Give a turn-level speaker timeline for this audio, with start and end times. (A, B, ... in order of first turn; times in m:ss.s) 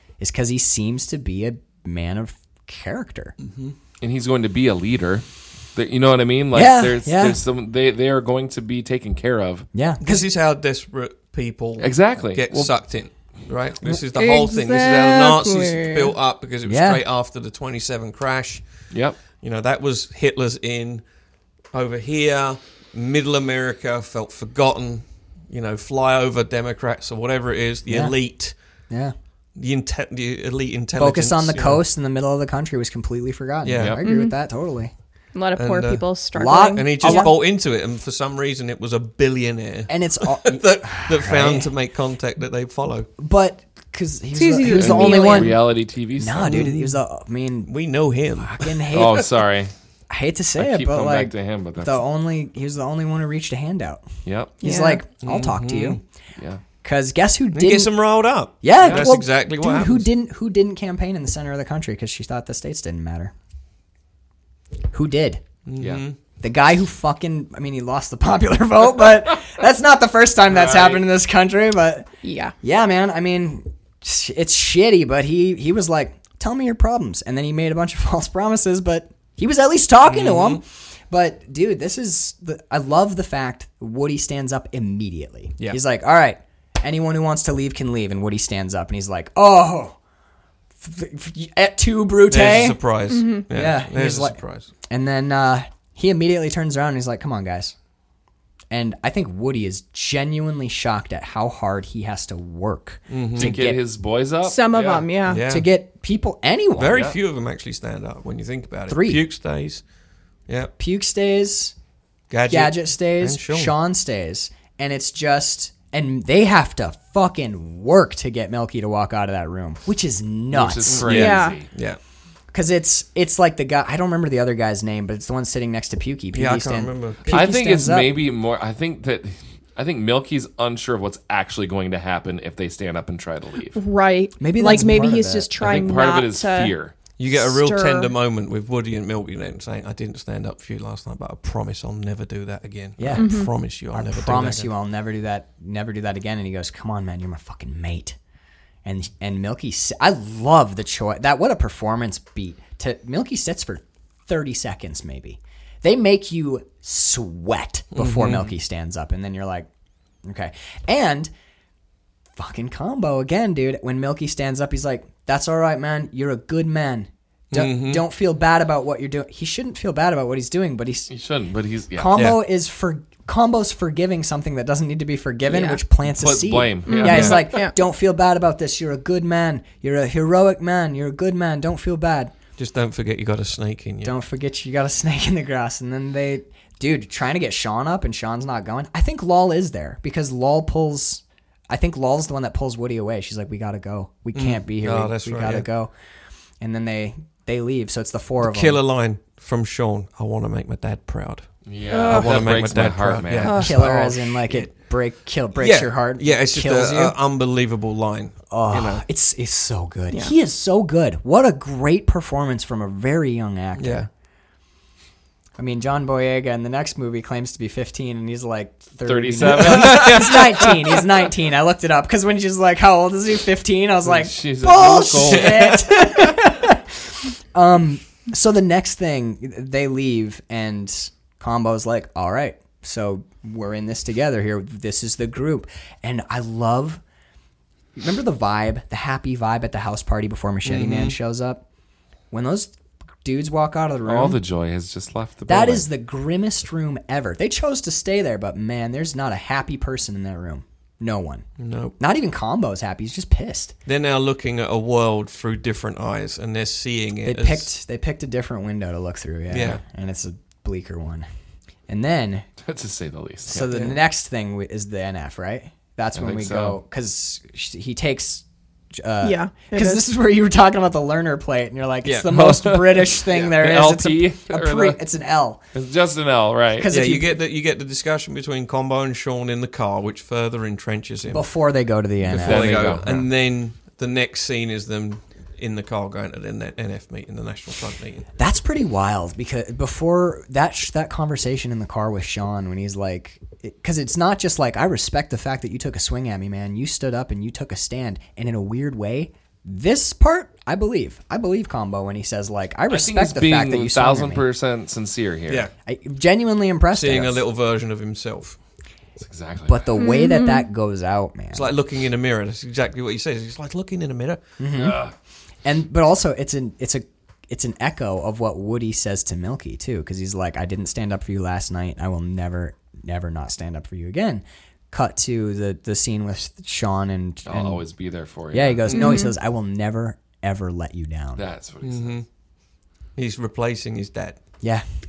0:00.2-0:03.4 A
0:03.4-0:03.8 B
0:04.0-0:09.7 C
0:06.5-0:07.4 A
0:09.7-0:10.3 A
0:10.0-0:18.7 B
0:11.8-0:12.7 C
0:14.1-0:16.1 D
0:16.7-0:17.0 A
0:18.9-0:19.2 C
0:19.4-0:21.0 B
0:21.7-0:28.5 B
0:27.9-0:28.2 A
0:29.6-0:31.8 B
0:31.0-0:34.9 A
0:33.6-0:34.0 B
0:33.8-0:34.0 C
0:34.0-0:34.4 D
0:35.4-0:37.3 D
0:35.6-0:36.0 B
0:36.4-0:37.3 A
0:36.7-0:43.1 B
0:39.9-0:41.7 A
0:43.2-0:47.7 A
0:44.3-0:45.6 D
0:44.7-0:46.7 C
0:46.4-0:47.0 B
0:47.7-0:48.9 B
0:48.4-0:49.3 A
0:48.9-0:49.7 C
0:50.1-0:54.1 A
0:50.6-0:52.0 C
0:54.2-0:54.6 C
0:54.6-0:56.0 A
0:54.6-0:55.0 D
0:55.2-0:56.0 B
0:56.8-0:57.9 A
0:57.5-1:00.1 B
0:58.6-1:03.3 A
0:58.8-0:59.1 C
1:04.9-1:05.4 A
1:05.6-1:06.2 B
1:06.4-1:12.1 A
1:10.5-1:11.0 C
1:12.2-1:12.6 D
1:12.6-1:30.0 A
1:20.1-1:20.6 B
1:30.8-1:32.8 A
1:32.3-1:34.7 B
1:33.1-1:33.5 D
1:33.5-1:37.8 A
1:38.7-1:43.8 A
1:43.1-1:43.6 B
1:43.4-1:45.0 C
1:44.4-1:45.4 D
1:44.8-1:45.7 B
1:45.3-1:47.1 A
1:46.8-1:49.8 B
1:46.9-1:47.2 C
1:48.9-1:49.2 A
1:50.8-1:51.7 A
1:52.3-1:53.7 B
1:52.5-2:01.3 A
2:00.5-2:01.7 C
2:00.9-2:02.0 B
2:01.1-2:01.6 D
2:02.5-2:08.2 A
2:06.3-2:07.4 B
2:07.3-2:13.8 C
2:13.7-2:16.7 D
2:14.4-2:15.5 A
2:15.6-2:16.9 C
2:17.2-2:24.7 B
2:17.3-2:18.1 D
2:23.0-2:23.4 A
2:23.2-2:23.5 D
2:23.9-2:28.2 A
2:28.8-2:39.7 A
2:37.9-2:38.5 B
2:40.2-2:41.3 A
2:42.4-2:51.1 A
2:47.5-2:48.0 B
2:51.1-2:52.2 C
2:52.0-3:02.3 A
2:55.5-2:55.8 D
2:56.1-2:57.4 C
2:56.9-2:57.7 D
2:57.0-2:57.4 B
3:02.6-3:04.2 B
3:04.0-3:15.9 A
3:14.4-3:15.7 B
3:16.6-3:18.8 A
3:18.4-3:24.7 B
3:21.7-3:23.7 C
3:21.9-3:22.4 D
3:23.4-3:23.8 D
3:23.5-3:27.2 A
3:25.6-3:29.0 B
3:28.5-3:34.1 A
3:33.8-3:34.1 B
3:35.6-3:57.0 A
3:39.0-3:41.0 C
3:39.5-3:40.2 B
3:44.0-3:46.0 C
3:45.3-3:45.6 B
3:58.0-4:01.6 A
4:00.6-4:01.2 B
4:02.3-4:04.4 A
4:04.1-4:05.9 C
4:05.5-4:11.5 A
4:11.6-4:12.0 B
4:12.0-4:13.8 A
4:13.9-4:17.7 B
4:17.2-4:21.3 A
4:19.5-4:19.8 B
4:21.9-4:22.5 A
4:22.6-4:23.8 C
4:23.5-4:28.4 A
4:23.7-4:24.0 B
4:26.2-4:26.8 C
4:29.0-4:35.6 A
4:29.2-4:30.0 D
4:32.3-4:35.0 C
4:35.7-4:36.9 C
4:36.8-4:37.4 A
4:36.9-4:41.5 B
4:41.3-4:43.0 A
4:42.2-4:48.3 B
4:42.3-4:43.3 C
4:48.4-5:04.4 A
5:02.9-5:05.7 C
5:05.8-5:07.4 A
5:06.9-5:08.6 B
5:09.2-5:09.8 C
5:09.7-5:11.7 A
5:10.0-5:10.6 D
5:11.5-5:14.4 B
5:14.6-5:15.0 A
5:14.7-5:15.1 C
5:15.6-5:27.8 A
5:27.5-5:29.1 C
5:28.5-5:31.4 A
5:28.9-5:29.3 D
5:31.4-5:32.2 C
5:31.8-5:32.3 B
5:33.2-5:34.4 B